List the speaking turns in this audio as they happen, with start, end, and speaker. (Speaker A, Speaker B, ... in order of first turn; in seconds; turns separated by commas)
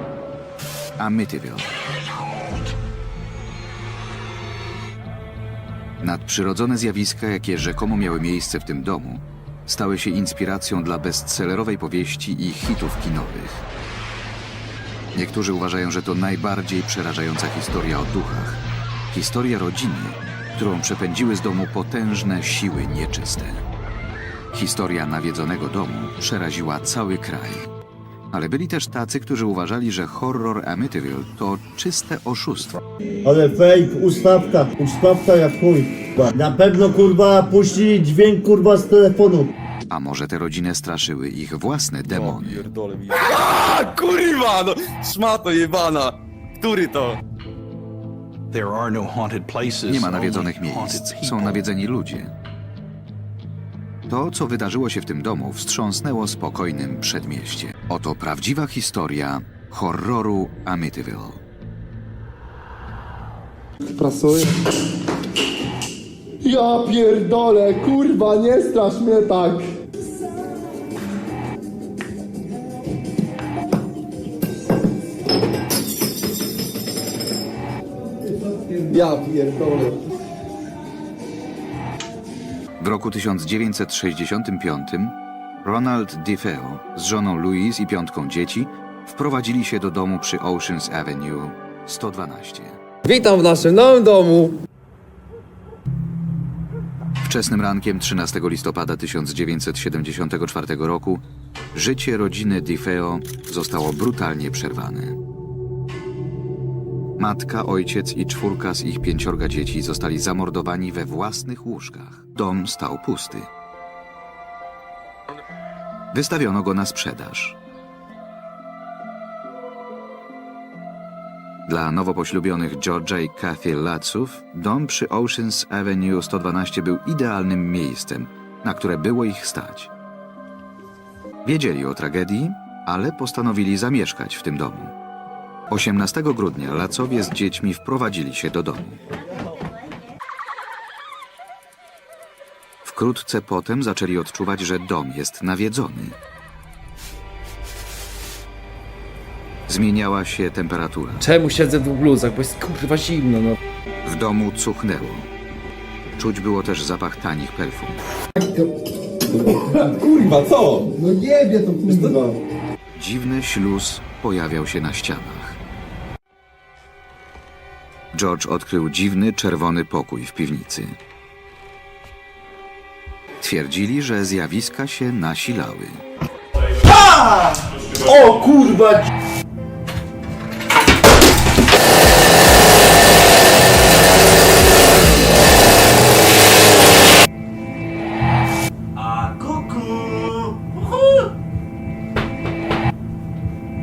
Speaker A: 1.0-1.7, Speaker A: 6.0-13.7, Speaker A: 15.1-23.6, Speaker A: 24.5-27.7, Speaker A: 28.3-32.8, Speaker B: 33.2-39.5, Speaker A: 39.9-42.7, Speaker C: 42.1-47.2, Speaker D: 48.5-51.6, Speaker A: 49.9-52.3, Speaker A: 54.1-61.4, Speaker E: 64.0-64.5, Speaker F: 64.0-64.3, Speaker E: 66.4-69.7, Speaker E: 78.5-80.0, Speaker A: 82.8-92.8, Speaker F: 93.0-94.5, Speaker A: 97.2-105.2, Speaker A: 107.2-113.5, Speaker A: 116.1-117.6, Speaker A: 121.7-129.9, Speaker A: 131.4-134.9, Speaker A: 135.7-139.0, Speaker A: 142.8-146.2, Speaker A: 149.7-151.3, Speaker F: 151.2-153.6, Speaker A: 154.0-155.3, Speaker A: 156.2-158.0, Speaker E: 159.7-162.4, Speaker C: 160.2-160.9, Speaker A: 163.0-165.6, Speaker A: 168.1-170.9, Speaker A: 173.4-176.0, Speaker B: 176.8-179.1, Speaker B: 189.0-191.2